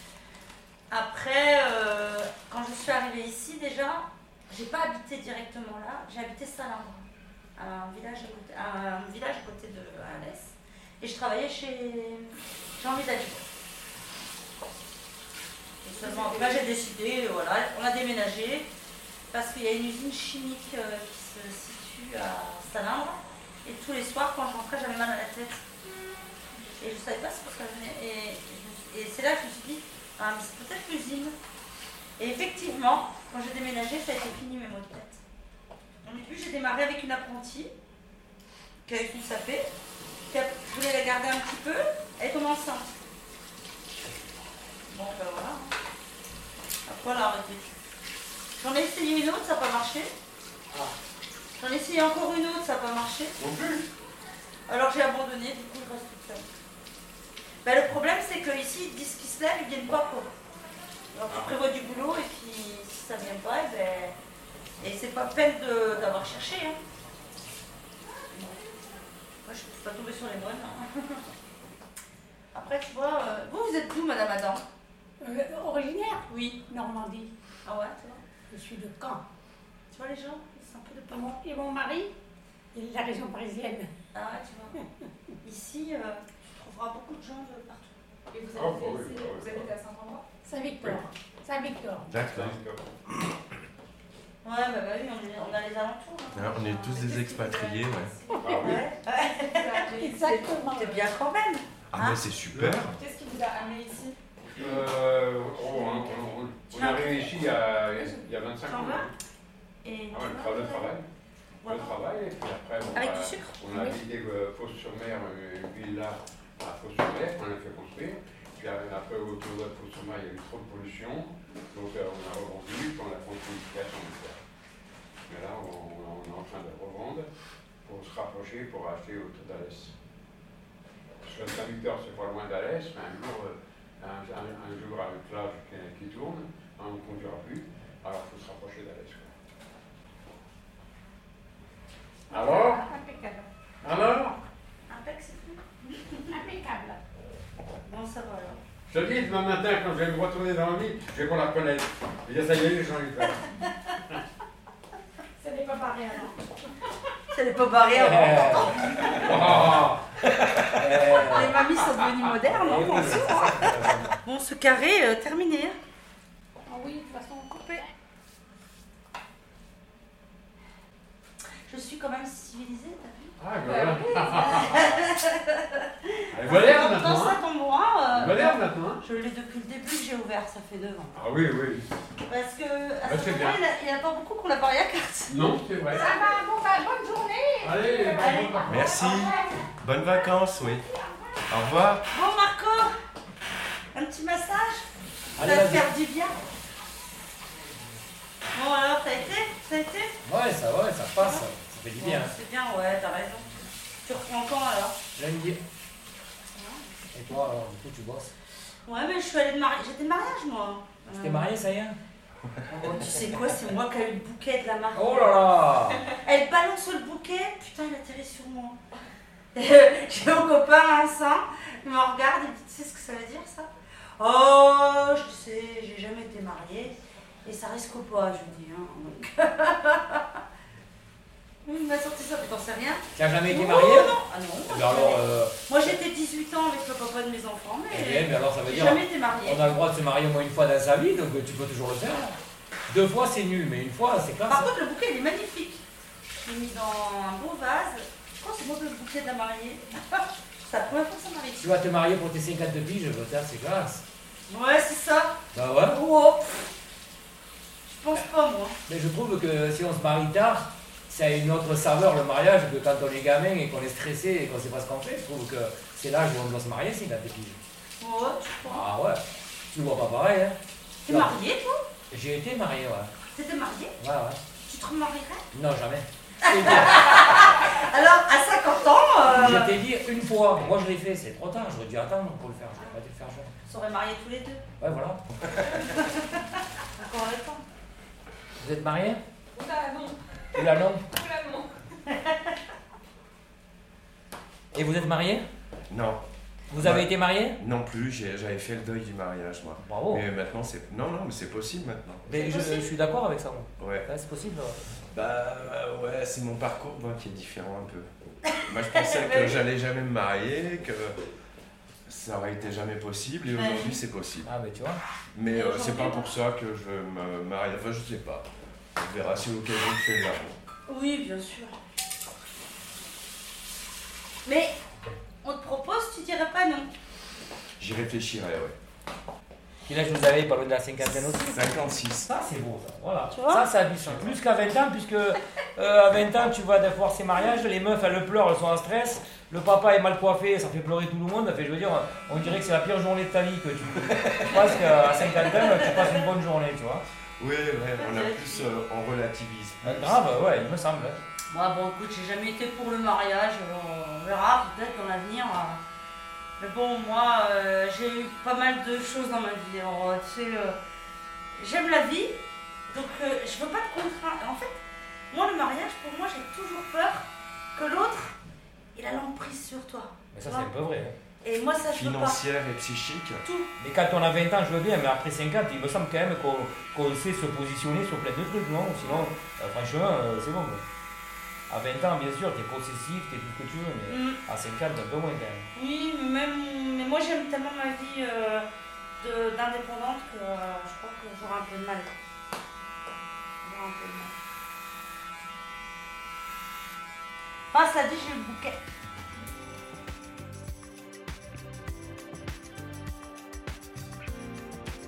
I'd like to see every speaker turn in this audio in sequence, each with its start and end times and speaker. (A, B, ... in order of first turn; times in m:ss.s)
0:00.9-0:13.4 A
0:15.8-0:18.7 A
0:19.3-0:25.6 A
0:26.8-0:31.3 A
0:32.2-0:35.2 A
0:36.0-0:37.7 A
0:38.8-0:39.7 A
0:40.3-0:42.9 A
0:44.9-0:45.7 A
0:46.8-0:47.7 A
0:48.6-0:50.1 A
0:51.6-0:53.4 A
0:53.4-0:53.9 B
0:54.7-0:56.5 A
0:57.6-1:00.3 A
1:01.1-1:04.1 A
1:04.8-1:06.8 A
1:08.3-1:08.6 A
1:09.4-1:11.2 A
1:12.5-1:14.6 A
1:15.2-1:17.3 C
1:17.6-1:18.2 A
1:18.5-1:19.2 C
1:19.9-1:21.4 A
1:21.1-1:22.1 C
1:22.7-1:23.9 C
1:24.1-1:24.8 A
1:25.4-1:28.0 A
1:28.3-1:30.3 D
1:28.5-1:29.7 B
1:30.4-1:32.1 C
1:32.1-1:32.6 E
1:32.1-1:32.9 B
1:34.4-1:37.2 A
1:36.3-1:38.1 E
1:37.2-1:38.5 D
1:38.4-1:38.8 B
1:38.5-1:39.9 A
1:39.4-1:40.4 D
1:39.7-1:41.0 C
1:40.6-1:42.2 A
1:41.9-1:43.0 E
1:42.5-1:42.9 B
1:42.9-1:44.2 D
1:44.6-1:49.1 B
1:46.7-1:47.3 A
1:48.6-1:49.1 A
1:49.8-1:50.9 A
1:50.1-1:51.0 B
1:51.6-1:52.0 A
1:51.6-2:04.4 B
1:52.9-1:53.6 A
1:53.7-1:54.0 C
2:05.3-2:07.3 B
2:07.8-2:09.9 B
2:11.2-2:19.3 B
2:22.3-2:22.8 B
2:22.3-2:23.5 C
2:23.8-2:24.4 B
2:24.9-2:26.4 A
2:26.3-2:27.0 C
2:27.8-2:28.6 A
2:28.9-2:33.4 B
2:35.4-2:36.5 C
2:37.3-2:39.5 A
2:37.9-2:44.2 F
2:39.2-2:40.0 B
2:41.0-2:45.7 A
2:46.6-2:47.9 C
2:47.5-2:47.8 A
2:51.7-2:53.3 A
2:53.4-2:54.8 B
2:53.6-2:54.6 C
2:54.2-3:01.2 A
2:56.3-2:57.4 B
2:58.1-2:59.0 B
3:01.1-3:01.8 B
3:02.3-3:05.3 A
3:03.0-3:03.6 B
3:05.3-3:06.1 B
3:05.9-3:11.4 C
3:07.6-3:08.7 B
3:08.1-3:09.4 A
3:08.6-3:10.8 E
3:11.5-3:12.0 E
3:12.1-3:12.9 A
3:13.9-3:16.4 A
3:15.4-3:15.9 F
3:18.5-3:20.1 A
3:20.2-3:22.3 F
3:21.2-3:25.0 A
3:25.2-3:25.6 F
3:26.5-3:26.8 A
3:27.1-3:28.3 F
3:28.8-3:31.5 A
3:31.2-3:32.0 F
3:32.7-3:33.2 F
3:32.8-3:35.4 A
3:34.9-3:36.1 F
3:36.0-3:38.8 A
3:39.5-3:50.4 A
3:51.6-3:59.7 A
3:53.1-3:54.1 F
3:54.7-3:55.6 F
3:57.9-4:02.4 F
4:02.9-4:04.7 F
4:04.5-4:05.8 A
4:06.4-4:11.7 A
4:11.6-4:14.0 F
4:14.5-4:16.7 A
4:15.5-4:16.0 F
4:17.8-4:18.8 A
4:18.9-4:27.6 F
4:28.0-4:28.9 A
4:28.7-4:31.4 F
4:31.0-4:31.8 A
4:32.1-4:33.1 F
4:33.3-4:34.0 A
4:34.0-4:34.4 F
4:34.6-4:35.4 A
4:35.5-4:37.2 F
4:36.4-4:39.7 A
4:39.3-4:43.5 F
4:43.6-4:44.6 A
4:44.8-4:45.9 F
4:45.7-4:47.6 A
4:48.6-4:49.2 F
4:50.5-4:51.1 F
4:52.1-4:52.5 A
4:54.7-4:55.5 F
4:55.9-4:56.2 E
4:56.7-4:57.6 F
4:56.8-5:02.2 E
4:59.8-5:00.3 F
5:02.2-5:04.8 F
5:02.3-5:02.9 A
5:03.8-5:04.1 E
5:05.1-5:08.1 E
5:08.4-5:09.6 A
5:08.6-5:11.2 E
5:12.0-5:14.5 E
5:13.5-5:14.0 A
5:14.4-5:15.0 F
5:15.3-5:20.6 E
5:15.5-5:16.3 A
5:20.8-5:21.7 A
5:24.4-5:24.8 A
5:25.4-5:26.9 A
5:27.8-5:28.7 E
5:29.8-5:47.0 F
5:31.3-5:32.3 E
5:33.3-5:33.7 A
5:34.1-5:34.4 E
5:45.2-5:46.2 A
5:47.4-5:50.6 E
5:48.0-5:48.7 A
5:49.8-5:51.2 F
5:51.5-5:55.8 A
5:56.6-6:00.8 A
6:01.6-6:04.8 A
6:05.3-6:08.3 A
6:08.9-6:10.7 A
6:10.3-6:11.1 F
6:11.4-6:12.4 A
6:11.9-6:13.4 E
6:13.4-6:13.7 A
6:13.8-6:20.8 F
6:19.0-6:19.3 A
6:21.7-6:25.7 F
6:24.0-6:24.4 A
6:25.7-6:28.6 A
6:29.2-6:32.1 A
6:33.6-6:34.4 A
6:37.7-6:38.8 A